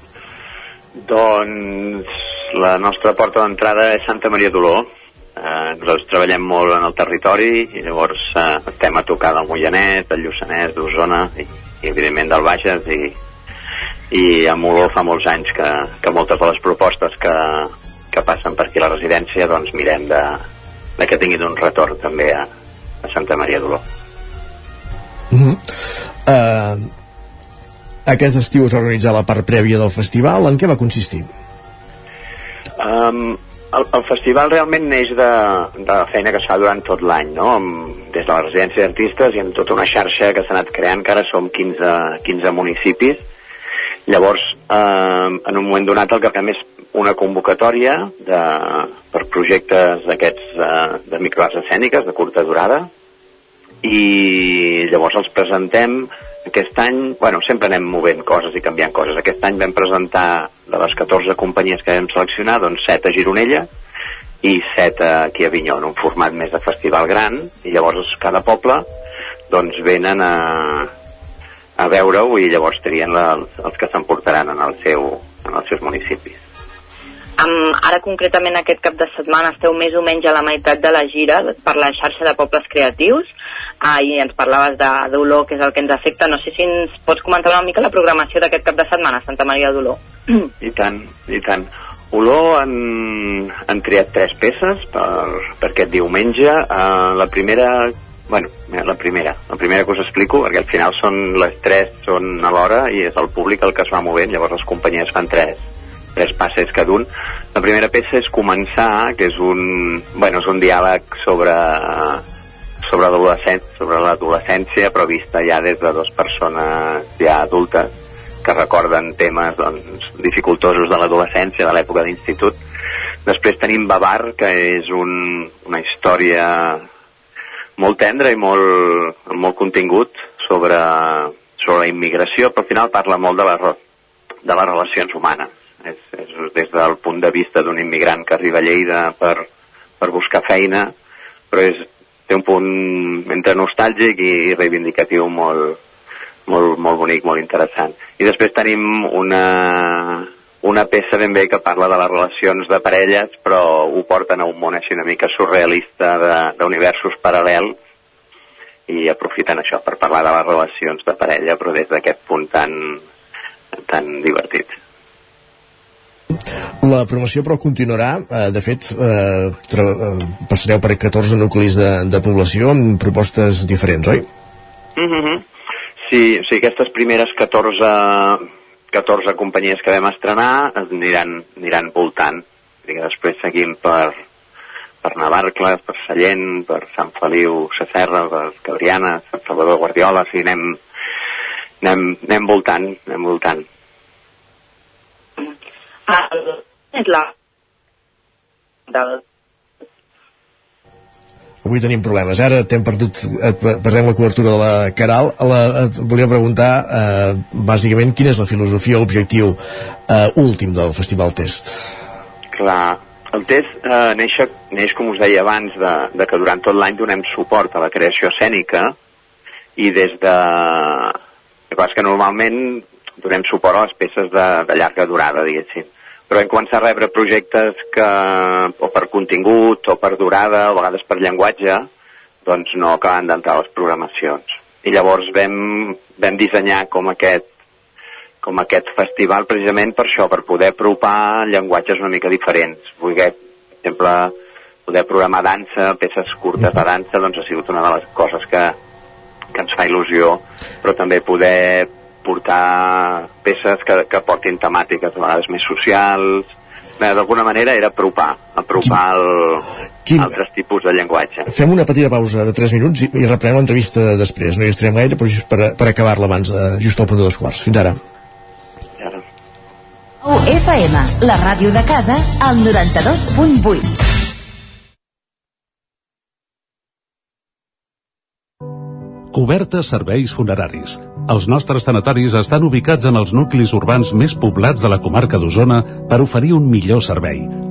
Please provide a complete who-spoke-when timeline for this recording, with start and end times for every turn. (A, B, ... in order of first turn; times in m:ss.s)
0:01.0-0:13.2 A
0:14.1-0:20.4 A
0:21.0-0:22.5 A
0:23.0-0:23.8 A
0:25.3-0:25.6 B
0:26.2-0:26.9 B
0:28.1-0:31.3 B
0:32.8-0:43.2 A
0:44.1-0:52.9 A
0:53.8-1:03.7 A
1:04.4-1:08.9 A
1:09.5-1:10.9 A
1:11.8-1:16.4 A
1:17.4-1:23.2 C
1:23.8-1:30.0 C
1:30.6-1:45.6 A
1:46.2-1:52.2 A
1:52.8-1:57.9 A
1:58.4-2:02.6 A
2:03.3-2:06.8 A
2:07.8-2:13.8 A
2:14.4-2:19.5 A
2:20.0-2:20.9 A
2:21.5-2:25.8 A
2:26.5-2:37.8 A
2:38.9-2:43.0 A
2:43.8-2:44.8 A
2:46.8-2:54.3 B
2:55.0-2:55.4 A
2:56.1-3:04.2 A
3:05.0-3:10.8 A
3:11.8-3:13.6 A
3:16.1-3:16.4 C
3:17.0-3:17.3 C
3:21.6-3:31.9 B
3:32.5-3:39.0 A
3:39.8-3:41.2 A
3:41.7-3:51.9 A
3:52.4-3:57.5 A
3:58.4-4:04.3 A
4:04.9-4:08.8 A
4:09.5-4:16.5 A
4:17.0-4:19.6 A
4:20.1-4:20.3 B
4:20.2-4:21.5 A
4:21.5-4:28.0 B
4:30.2-4:33.9 D
4:39.3-4:47.6 E